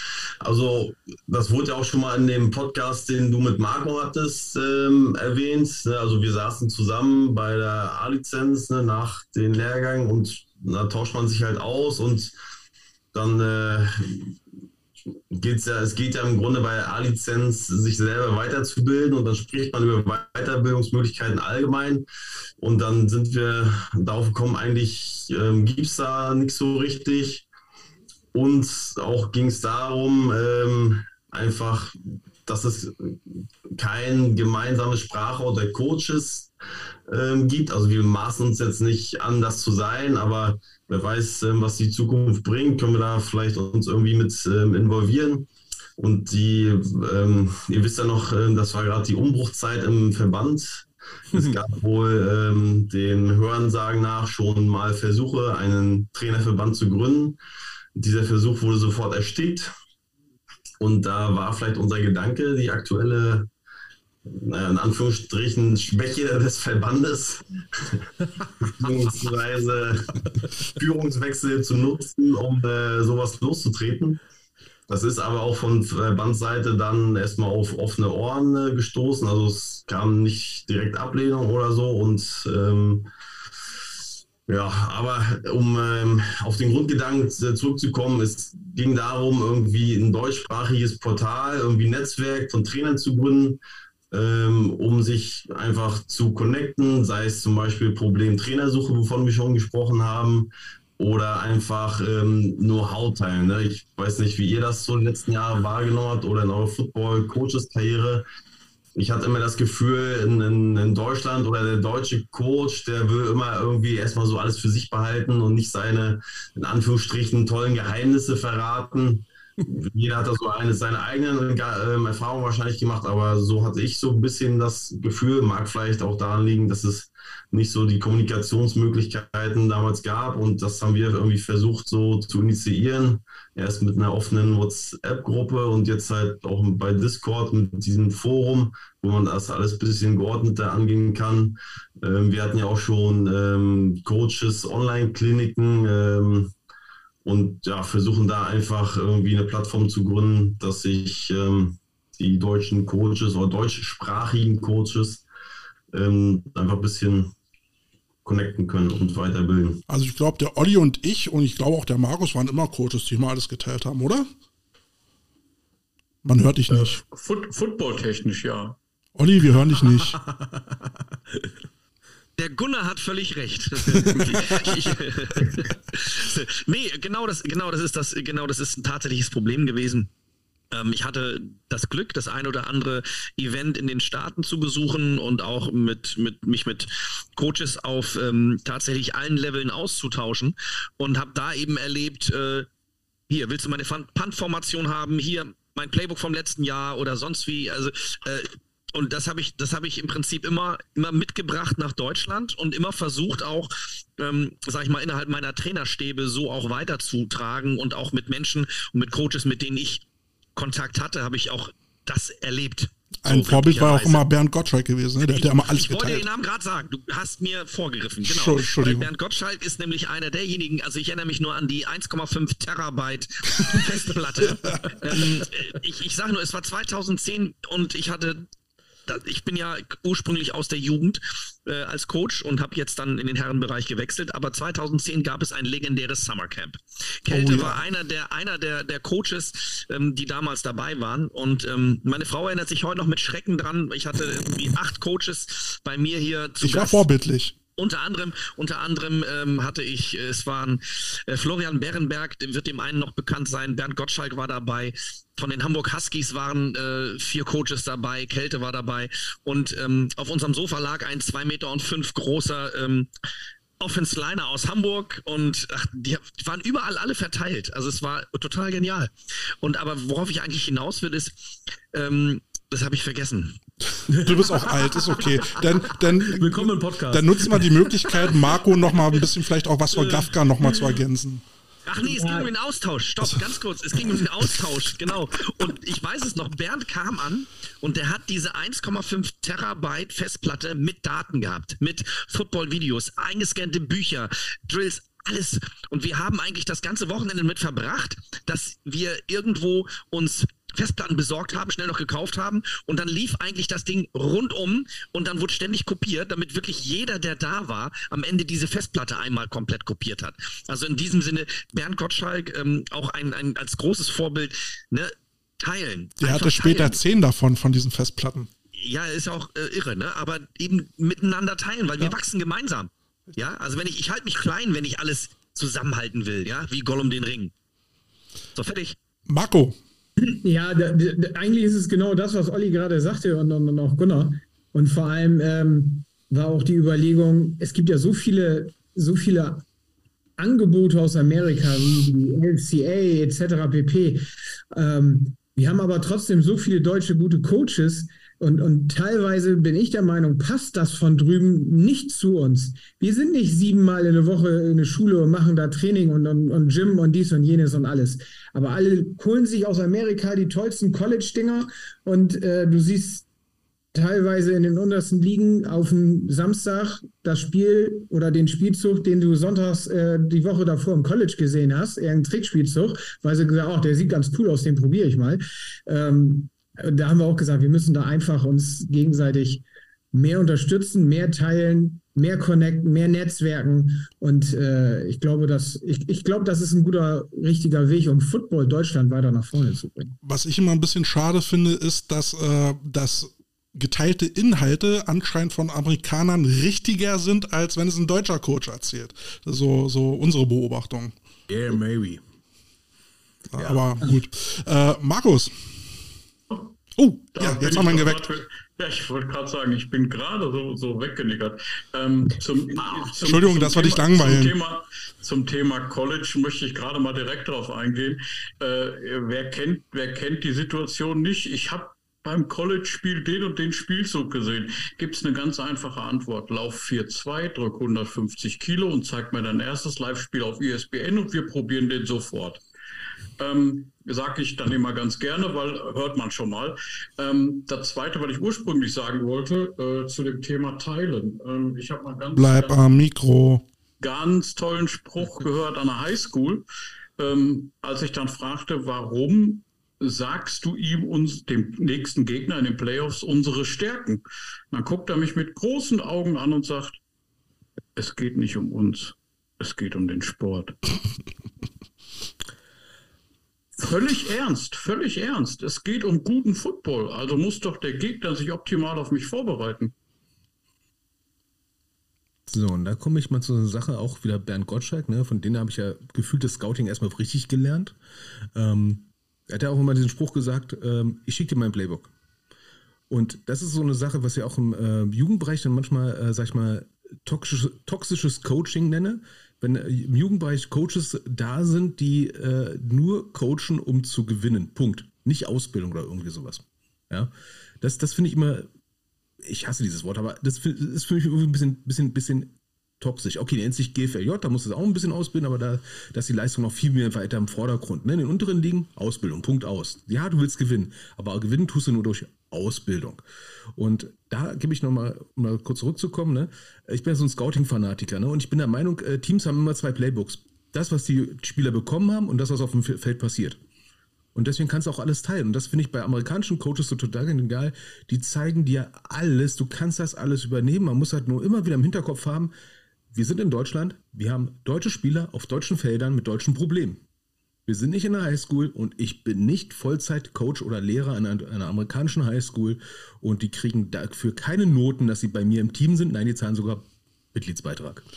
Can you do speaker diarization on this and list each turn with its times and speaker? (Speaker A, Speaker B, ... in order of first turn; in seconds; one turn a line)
Speaker A: 0.4-12.3
Speaker A: 13.1-14.3
Speaker A: 15.3-22.1
Speaker A: 22.6-27.4
Speaker A: 28.3-33.2
Speaker A: 33.8-36.5
Speaker A: 37.1-45.5
Speaker A: 46.0-57.4
Speaker B: 51.3-51.7
Speaker A: 58.0-59.7
Speaker A: 60.8-63.5
Speaker A: 64.3-68.0
Speaker A: 68.6-74.2
Speaker A: 74.9-83.1
Speaker A: 84.5-93.6
Speaker A: 94.1-108.2
Speaker A: 108.9-146.5
Speaker A: 147.2-155.2
Speaker A: 155.9-157.3
Speaker A: 158.2-159.8
Speaker C: 159.9-164.3
Speaker C: 166.2-167.0
Speaker D: 166.7-168.8
Speaker C: 169.2-170.2
Speaker B: 170.2-170.7
Speaker E: 172.4-180.1
Speaker C: 174.3-174.9
Speaker E: 180.7-192.7
Speaker E: 193.3-210.0
Speaker E: 210.6-214.2
Speaker C: 213.2-216.2
Speaker E: 215.2-228.5
Speaker C: 218.2-219.1
Speaker E: 229.1-247.1
Speaker C: 237.3-237.8
Speaker C: 246.6-247.6
Speaker E: 247.8-263.1
Speaker E: 263.8-273.6
Speaker B: 274.1-278.6
Speaker C: 274.2-281.4
Speaker E: 281.9-317.0
Speaker F: 282.0-282.5
Speaker C: 316.2-318.5
Speaker E: 318.7-327.5
Speaker E: 328.6-329.0
Speaker C: 329.2-329.8
Speaker F: 330.2-339.6
Speaker F: 340.4-363.2
Speaker F: 363.9-390.1
Speaker C: 390.2-401.1
Speaker B: 401.5-402.2
Speaker C: 403.5-405.7
Speaker B: 403.6-404.1
Speaker C: 406.9-408.3
Speaker D: 407.3-432.6
Speaker C: 413.2-414.5
Speaker D: 433.4-442.9
Speaker C: 442.3-443.6
Speaker D: 444.0-446.6
Speaker D: 447.2-457.0
Speaker D: 457.9-460.8
Speaker D: 463.8-469.9
Speaker B: 472.5-478.0
Speaker B: 478.5-482.1
Speaker B: 483.1-498.7
Speaker B: 499.4-513.2
Speaker B: 513.7-523.6
Speaker B: 524.3-532.5
Speaker B: 533.1-537.0
Speaker B: 537.6-548.0